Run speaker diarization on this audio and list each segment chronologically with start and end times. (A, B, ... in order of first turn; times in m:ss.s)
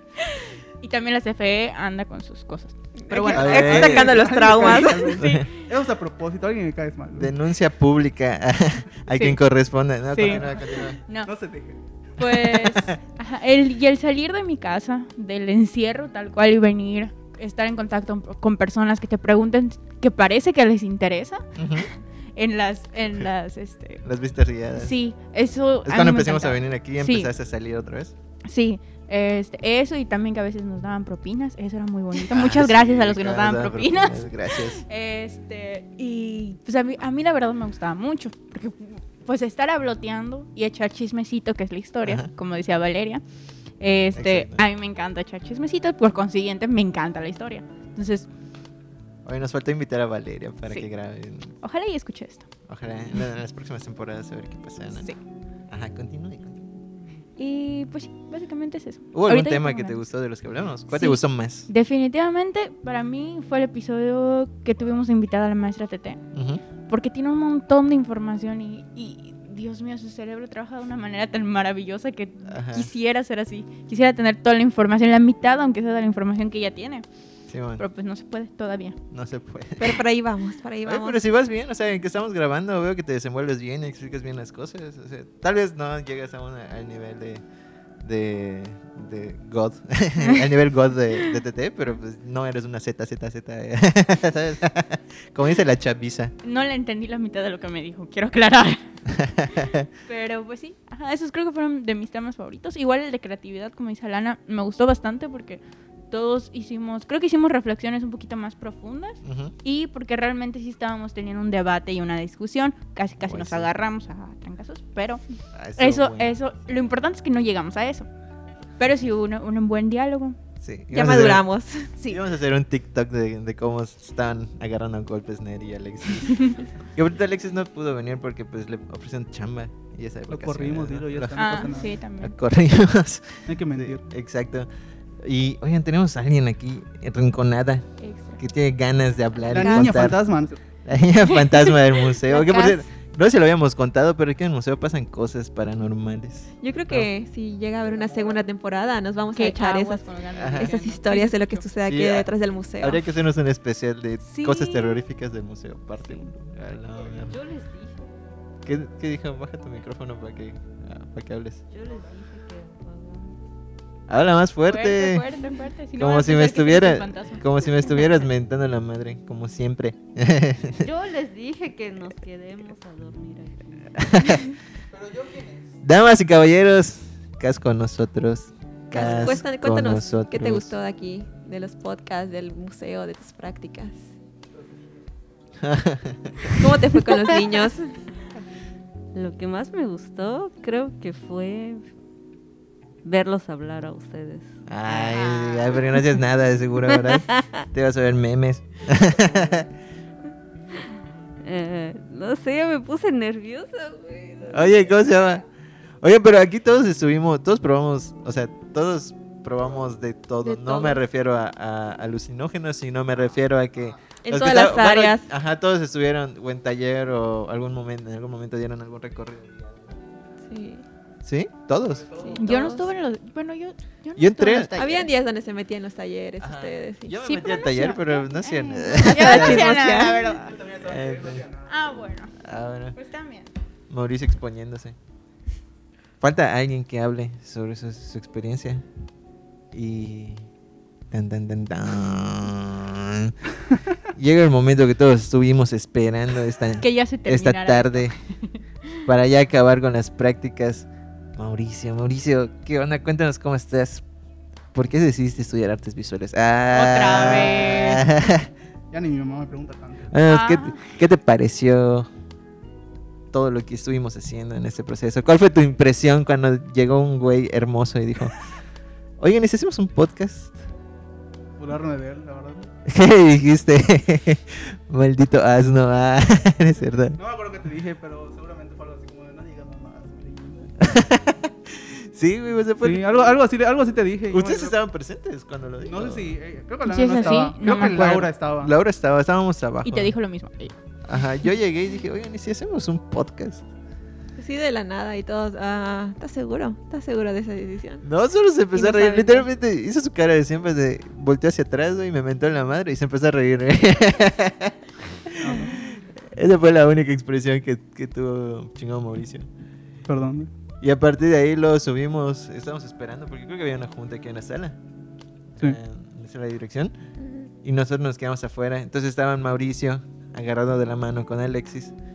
0:00.2-0:05.6 A
0:03.0-0:05.2 B
0:03.3-0:07.3 C
0:03.3-0:04.3 D
0:05.2-0:05.5 D
0:07.2-0:11.0 D
0:09.1-0:09.4 A
0:10.1-0:11.3 A
0:11.2-0:11.8 C
0:12.2-0:21.8 A
0:12.3-0:13.0 D
0:21.6-0:21.9 D
0:22.4-0:24.0 A
0:24.0-0:25.0 D
0:24.8-0:27.3 A
0:25.8-0:28.1 D
0:28.5-0:43.2 A
0:32.3-0:34.8 D
0:42.0-0:42.3 D
0:43.8-0:48.3 A
0:44.2-0:44.7 D
0:49.2-0:51.5 D
0:51.6-0:52.5 A
0:52.7-0:55.1 D
0:54.9-0:55.2 A
0:55.7-0:56.7 D
0:57.4-1:00.0 A
0:59.1-1:01.7 D
1:00.9-1:06.2 A
1:06.3-1:06.6 D
1:06.9-1:17.1 A
1:12.5-1:12.9 D
1:17.5-1:17.8 D
1:17.8-1:19.0 A
1:19.1-1:20.0 D
1:19.8-1:21.2 B
1:20.8-1:27.4 D
1:28.0-1:36.3 D
1:36.4-1:38.9 A
1:39.1-1:39.9 D
1:39.6-1:55.2 A
1:49.2-1:49.5 D
1:53.2-1:53.7 D
1:55.5-1:56.4 D
1:55.8-1:58.1 A
1:58.8-2:00.4 A
2:00.6-2:01.5 D
2:00.9-2:01.9 B
2:02.0-2:14.7 D
2:10.3-2:12.0 C
2:11.4-2:12.4 A
2:13.5-2:14.1 C
2:15.2-2:20.2 D
2:18.0-2:18.4 A
2:19.5-2:20.6 C
2:19.6-2:20.1 B
2:20.8-2:27.1 D
2:22.3-2:22.8 A
2:26.6-2:33.0 B
2:29.3-2:31.7 A
2:30.3-2:30.7 D
2:31.9-2:37.4 D
2:34.2-2:35.1 A
2:37.2-2:38.1 E
2:38.6-2:41.6 D
2:41.7-2:43.4 E
2:44.1-2:45.2 D
2:44.6-2:48.3 A
2:46.0-2:50.9 D
2:50.8-2:54.1 E
2:54.0-2:54.6 D
2:54.9-2:55.7 C
2:55.8-3:00.8 D
2:58.9-3:04.1 B
3:05.6-3:06.6 D
3:06.4-3:07.9 B
3:09.2-3:11.9 E
3:13.0-3:14.6 E
3:14.7-3:19.7 D
3:14.9-3:16.0 A
3:21.4-3:24.9 E
3:24.5-3:25.4 D
3:26.0-3:40.0 D
3:34.2-3:35.3 B
3:40.5-3:40.8 B
3:41.2-3:42.3 D
3:42.2-3:42.8 B
3:42.4-3:45.1 A
3:44.2-3:45.0 D
3:44.8-3:47.2 B
3:46.4-3:50.1 D
3:47.2-3:50.6 A
3:49.0-3:50.4 B
3:50.4-3:51.7 C
3:50.8-3:51.5 D
3:51.7-3:52.4 A
3:52.4-3:53.0 D
3:52.9-3:53.5 A
3:53.9-3:55.0 D
3:56.2-3:58.8 D
3:59.7-4:00.5 D
4:01.1-4:03.4 D
4:04.1-4:08.2 D
4:06.8-4:09.0 A
4:09.1-4:14.0 D
4:14.7-4:18.5 D
4:16.7-4:18.0 A
4:18.9-4:20.1 C
4:20.1-4:22.1 D
4:20.2-4:20.9 A
4:23.3-4:28.4 D
4:29.2-4:30.5 D
4:31.6-4:32.7 C
4:32.9-4:37.2 D
4:37.2-4:40.8 C
4:40.8-4:43.3 D
4:42.8-4:44.8 C
4:44.3-4:46.4 D
4:45.8-4:48.7 C
4:46.9-4:48.3 A
4:47.8-4:50.1 D
4:49.8-4:50.8 A
4:51.0-4:53.6 D
4:54.4-4:58.0 B
4:58.0-5:04.8 D
4:58.8-4:59.5 A
5:05.3-5:09.5 D
5:05.4-5:05.8 C
5:10.1-5:10.5 C
5:10.8-5:14.8 D
5:15.6-5:17.0 D
5:17.2-5:17.5 B
5:17.6-5:21.9 D